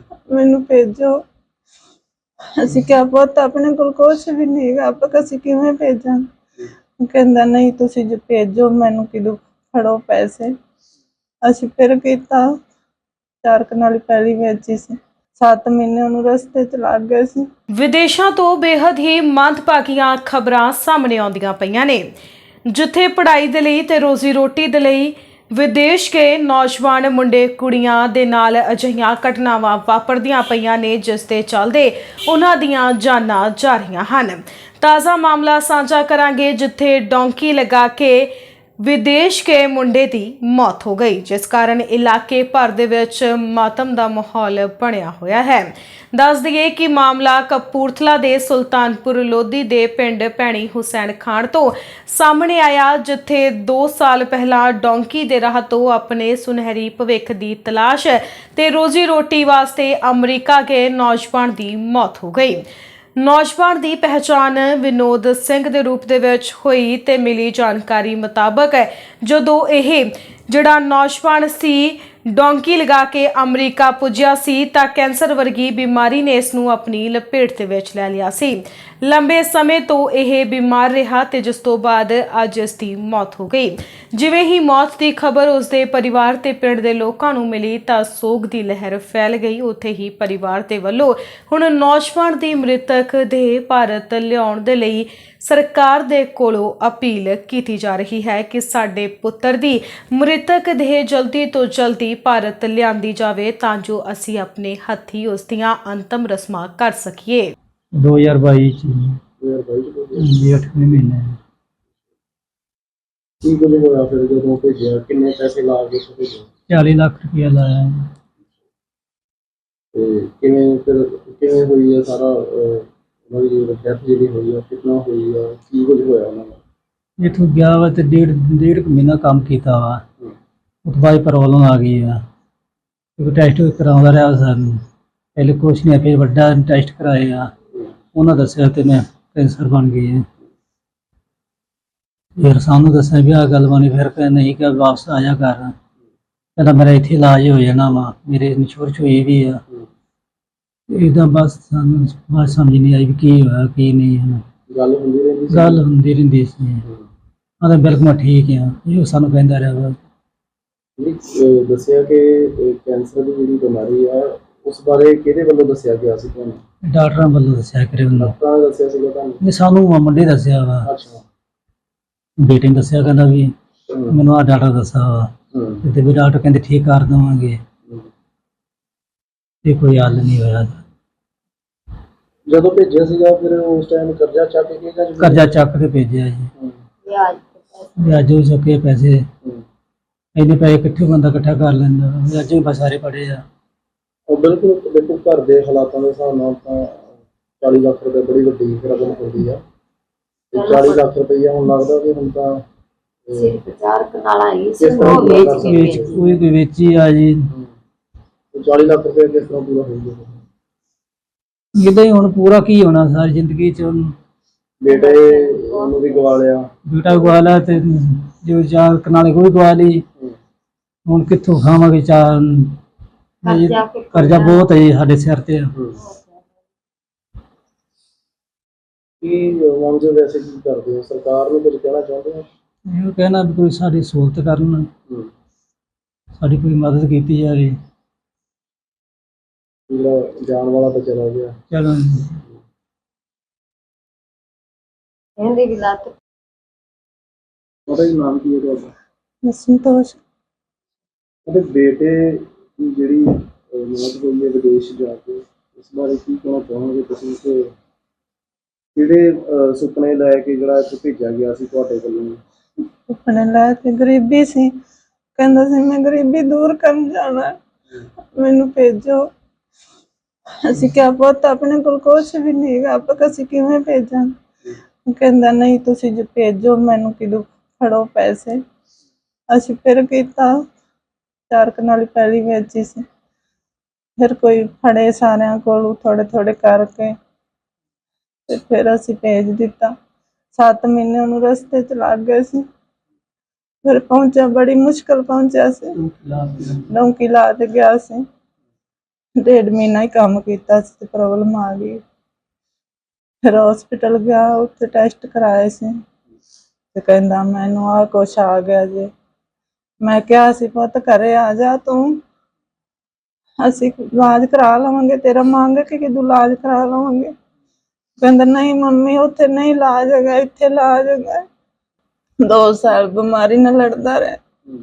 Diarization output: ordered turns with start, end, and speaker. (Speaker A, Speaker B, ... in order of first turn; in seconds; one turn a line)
Speaker A: 0.3-1.2
Speaker A: 2.6-6.2
Speaker A: 7.0-10.5
Speaker A: 11.4-12.5
Speaker A: 13.4-17.5
Speaker B: 17.8-22.1
Speaker B: 22.7-38.3
Speaker B: 38.8-62.6
Speaker B: 63.2-107.5
Speaker C: 107.9-109.2
Speaker D: 109.4-110.3
Speaker C: 110.2-111.4
Speaker D: 113.4-116.5
Speaker C: 116.7-118.1
Speaker D: 119.9-126.6
Speaker C: 127.2-130.0
Speaker C: 130.8-132.2
Speaker C: 133.2-134.8
Speaker C: 135.4-137.5
Speaker C: 138.1-140.3
Speaker C: 142.4-145.7
Speaker C: 146.6-149.6
Speaker C: 150.9-154.4
Speaker D: 154.7-155.8
Speaker C: 155.5-156.8
Speaker C: 157.6-160.0
Speaker D: 161.0-166.6
Speaker C: 166.9-168.3
Speaker D: 168.2-169.4
Speaker C: 169.4-170.9
Speaker D: 170.8-171.2
Speaker C: 172.4-173.5
Speaker D: 173.9-174.2
Speaker C: 174.1-177.6
Speaker D: 175.5-175.8
Speaker C: 179.6-180.8
Speaker D: 182.5-185.5
Speaker C: 185.2-186.5
Speaker E: 187.1-188.2
Speaker C: 188.0-189.2
Speaker C: 190.4-193.4
Speaker D: 194.3-197.1
Speaker D: 197.6-199.6
Speaker D: 200.5-202.6
Speaker E: 200.6-201.1
Speaker D: 203.3-203.6
Speaker E: 203.3-206.4
Speaker D: 204.8-206.2
Speaker C: 205.0-207.5
Speaker D: 208.5-210.4
Speaker C: 211.8-214.1
Speaker D: 214.8-216.7
Speaker E: 214.9-216.3
Speaker C: 216.9-220.1
Speaker E: 217.1-217.4
Speaker C: 221.1-222.8
Speaker E: 223.4-224.7
Speaker C: 223.4-225.8
Speaker D: 225.7-226.0
Speaker E: 226.0-226.4
Speaker D: 229.2-232.5
Speaker C: 232.9-234.9
Speaker C: 236.4-237.8
Speaker D: 239.9-241.6
Speaker C: 241.7-242.4
Speaker E: 245.4-246.1
Speaker D: 247.9-248.9
Speaker A: 249.5-250.2
Speaker D: 251.5-257.7
Speaker D: 258.9-262.4
Speaker A: 263.1-264.7
Speaker A: 265.4-267.5
Speaker A: 268.4-269.2
Speaker A: 270.6-274.3
Speaker A: 275.1-278.6
Speaker A: 279.5-280.5
Speaker A: 281.5-283.0
Speaker A: 284.2-287.1
Speaker A: 288.5-289.9
Speaker A: 290.5-292.6
Speaker A: 293.8-296.0
Speaker C: 296.0-296.8
Speaker A: 296.9-298.2
Speaker A: 299.4-302.0
Speaker A: 303.4-305.9
Speaker A: 306.9-309.1
Speaker A: 310.0-312.2
Speaker A: 313.6-317.3
Speaker A: 318.2-321.4
Speaker A: 322.4-324.4